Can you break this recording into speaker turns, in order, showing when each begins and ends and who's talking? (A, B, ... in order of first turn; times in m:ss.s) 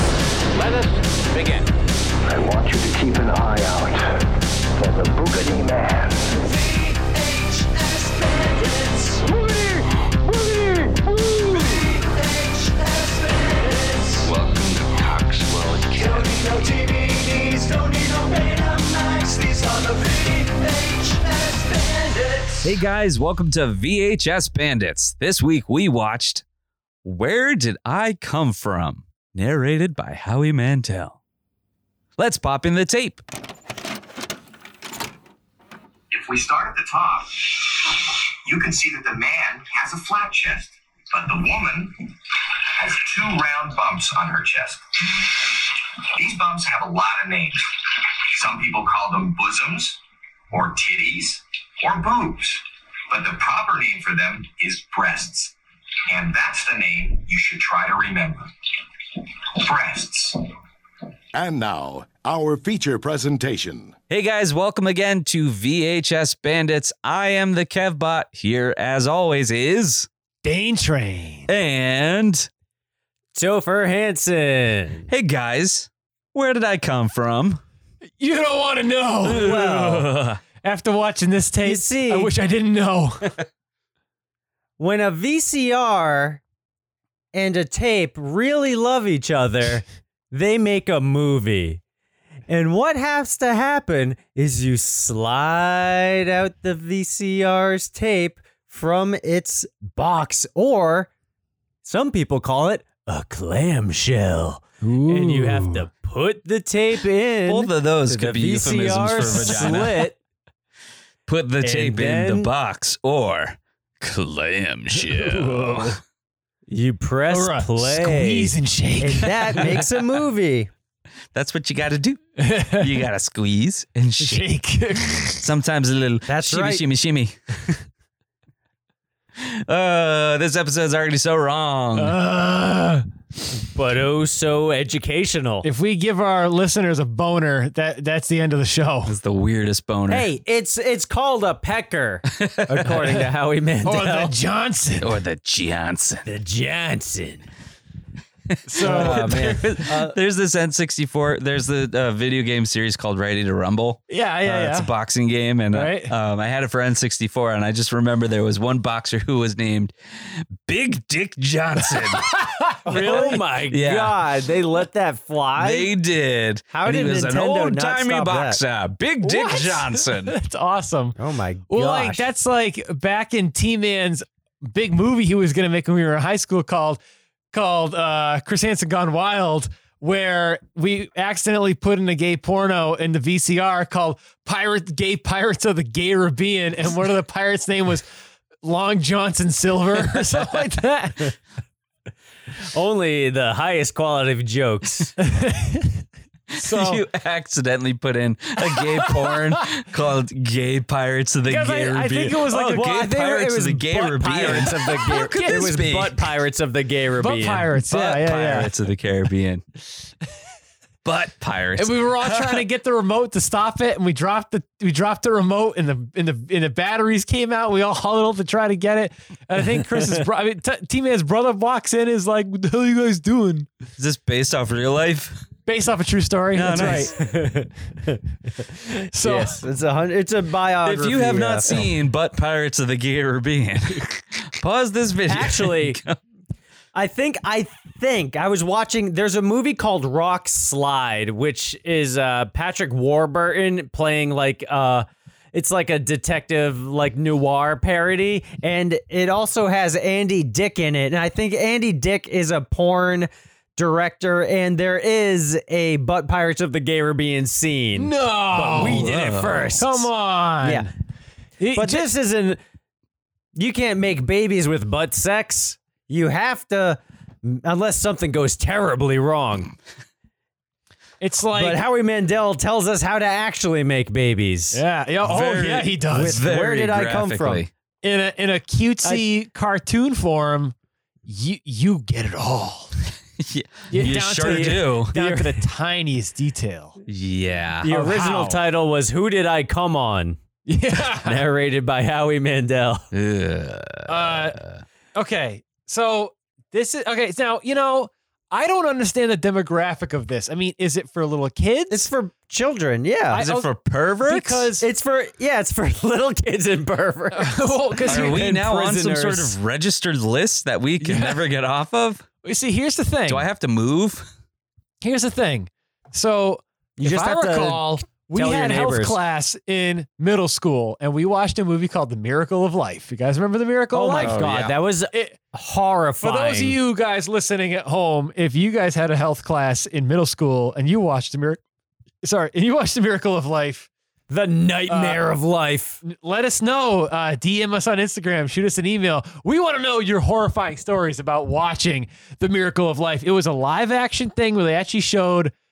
0:00.5-0:01.7 A
0:02.2-0:04.1 A
0:04.8-0:06.2 A
0:07.6-0:09.2 B
0:09.2-0:11.7 A
0:12.5-0:14.2 B
0:14.2-0:16.3 C
0:16.3-0:22.6 B
0:22.6-0:26.4 C
0:27.0-0:31.2 C
0:32.2-0:33.2 C
0:36.1-0:50.0 D
0:50.5-0:55.5 D
0:56.1-0:58.5 D
0:59.1-1:00.4 D
1:01.3-1:03.9 E
1:04.1-1:10.1 C
1:10.4-1:11.5 F
1:11.5-1:12.5 C
1:13.3-1:15.1 B
1:15.1-1:17.6 C
1:18.2-1:23.3 F
1:19.2-1:20.1 B
1:19.3-1:20.3 C
1:21.6-1:22.3 B
1:24.8-1:26.4 B
1:27.3-1:31.8 B
1:32.5-1:41.1 B
1:41.8-1:50.2 B
1:44.8-1:45.8 F
1:47.5-1:50.0 C
1:51.3-1:56.0 C
1:51.6-1:52.5 B
1:55.2-1:55.8 F
1:56.7-2:00.7 B
1:57.3-1:59.9 F
2:01.3-2:04.4 C
2:02.4-2:03.0 F
2:04.2-2:05.5 F
2:05.4-2:07.8 C
2:06.3-2:06.8 B
2:09.4-2:12.2 C
2:12.0-2:13.1 F
2:13.7-2:15.7 B
2:15.6-2:19.2 F
2:19.1-2:20.3 C
2:20.1-2:24.3 B
2:22.4-2:23.0 C
2:23.8-2:25.1 F
2:25.0-2:26.2 C
2:26.3-2:27.4 B
2:28.5-2:39.9 C
2:28.7-2:29.5 F
2:28.8-2:30.2 B
2:34.1-2:34.9 F
2:35.7-2:36.1 F
2:40.6-2:42.3 C
2:42.0-2:43.4 F
2:42.9-2:45.9 B
2:42.9-2:44.2 C
2:45.6-2:50.4 C
2:46.7-2:48.6 B
2:49.2-2:51.2 F
2:51.2-2:52.2 B
2:51.7-2:57.0 F
2:57.5-3:08.0 F
3:08.6-3:11.4 F
3:12.7-3:15.1 B
3:15.2-3:16.0 F
3:16.5-3:26.2 C
3:16.6-3:17.0 F
3:18.7-3:19.6 F
3:21.5-3:23.0 F
3:22.5-3:27.7 B
3:25.1-3:25.7 F
3:27.2-3:28.7 F
3:27.8-3:29.6 C
3:31.0-3:32.7 C
3:31.8-3:43.7 F
3:44.0-3:45.4 C
3:45.7-3:47.2 F
3:46.5-3:47.1 C
3:47.0-3:48.2 B
3:49.0-3:49.6 F
3:49.2-3:51.8 B
3:50.8-3:56.2 C
3:55.3-3:56.0 B
3:56.9-4:20.1 B
4:18.0-4:19.1 F
4:18.7-4:19.8 C
4:19.8-4:20.9 F
4:20.6-4:20.9 B
4:21.6-4:22.1 F
4:21.7-4:22.6 B
4:23.6-4:29.7 B
4:31.2-4:31.8 F
4:31.6-4:34.8 B
4:34.7-4:36.4 F
4:35.2-4:37.7 C
4:36.1-4:37.6 B
4:38.0-4:40.7 F
4:41.3-4:42.9 F
4:43.4-4:45.1 C
4:43.9-4:47.0 F
4:44.4-4:45.6 B
4:47.1-4:47.9 C
4:47.8-4:50.4 B
4:47.9-4:48.6 F
4:50.7-4:51.4 F
4:50.9-4:53.1 B
4:53.1-4:54.8 C
4:54.1-5:02.1 F
5:01.9-5:03.5 B
5:03.3-5:03.7 F
5:03.4-5:04.7 C
5:04.2-5:04.8 F
5:04.8-5:09.6 B
5:07.3-5:08.5 F
5:08.1-5:12.2 C
5:11.0-5:11.5 F
5:12.4-5:13.5 F
5:13.3-5:14.3 C
5:15.0-5:24.4 F
5:17.0-5:19.2 B
5:23.9-5:26.8 B
5:24.2-5:24.7 C
5:25.1-5:25.4 F
5:26.2-5:31.6 F
5:32.2-5:33.9 F
5:34.3-5:36.0 B
5:34.9-5:35.2 F
5:36.0-5:45.5 F